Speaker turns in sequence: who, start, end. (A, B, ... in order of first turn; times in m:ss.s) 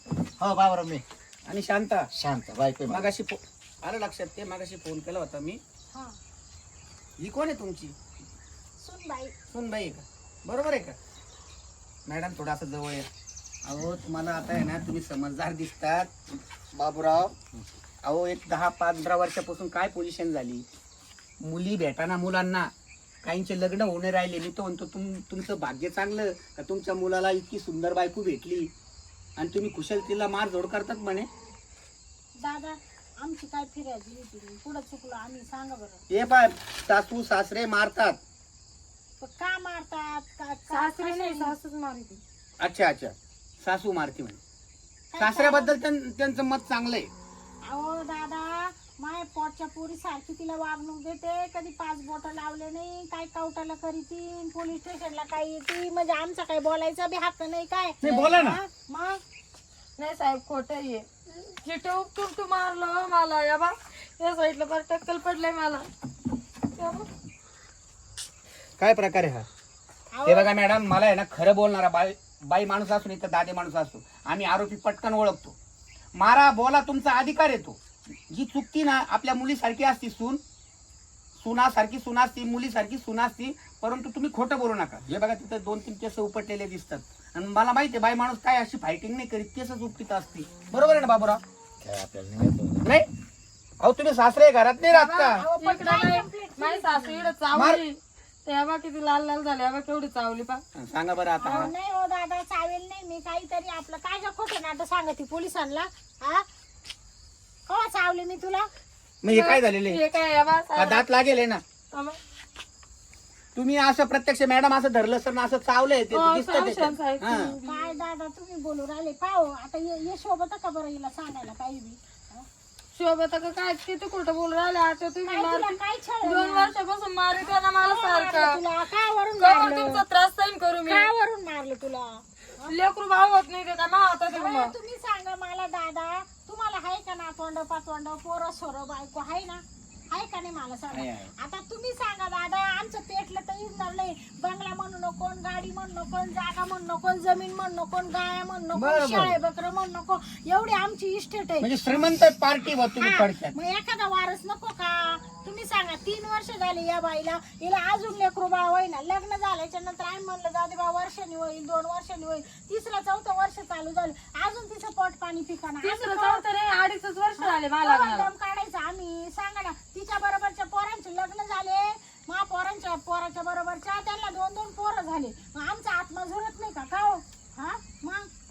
0:00.4-0:01.0 A
0:01.5-0:02.1 B
0:02.1-0:03.1 A
0:02.9-0:05.6 B
0:07.2-0:08.0 B
0:08.8-0:09.3 C
0:09.5-0:11.0 B
0:12.1-0:13.1 B
0:13.6-0:16.1 B
0:16.7-0:20.6 B
0:21.4-0:22.7 B
0:23.2-0:28.7 B
0:29.4-0:31.3 B
0:32.4-0:36.0 C
0:36.1-0:38.2 B
0:39.2-0:41.6 C
0:40.7-0:42.2 D
0:42.6-0:44.4 B
0:45.1-0:45.8 C
0:45.2-0:47.1 B
0:47.7-0:59.2 C
0:58.0-0:58.6 B
1:00.0-1:05.9 D
1:06.8-1:07.1 D
1:08.8-1:09.5 B
1:10.1-1:10.6 C
1:10.3-1:15.6 B
1:16.2-1:20.4 B
1:21.4-1:31.4 B
1:31.8-1:32.8 A
1:33.8-1:35.4 B
1:34.9-1:40.6 D
1:35.3-1:37.3 C
1:37.5-1:37.8 B
1:40.8-1:41.7 B
1:41.4-1:46.4 C
1:47.7-1:48.7 C
1:49.2-1:50.0 B
1:49.3-1:51.1 D
1:50.8-1:51.6 B
1:51.9-1:52.2 D
1:53.6-1:57.6 B
1:56.1-1:58.0 D
1:57.6-2:02.5 C
2:03.0-2:08.6 D
2:05.3-2:06.7 C
2:07.8-2:10.0 C
2:09.4-2:11.1 D
2:10.9-2:12.8 C
2:12.7-2:14.7 D
2:14.3-2:32.0 C
2:20.9-2:21.3 B
2:28.8-2:29.4 B
2:31.6-2:33.5 B
2:33.0-2:46.4 C
2:45.8-2:48.3 D
2:47.4-2:58.3 C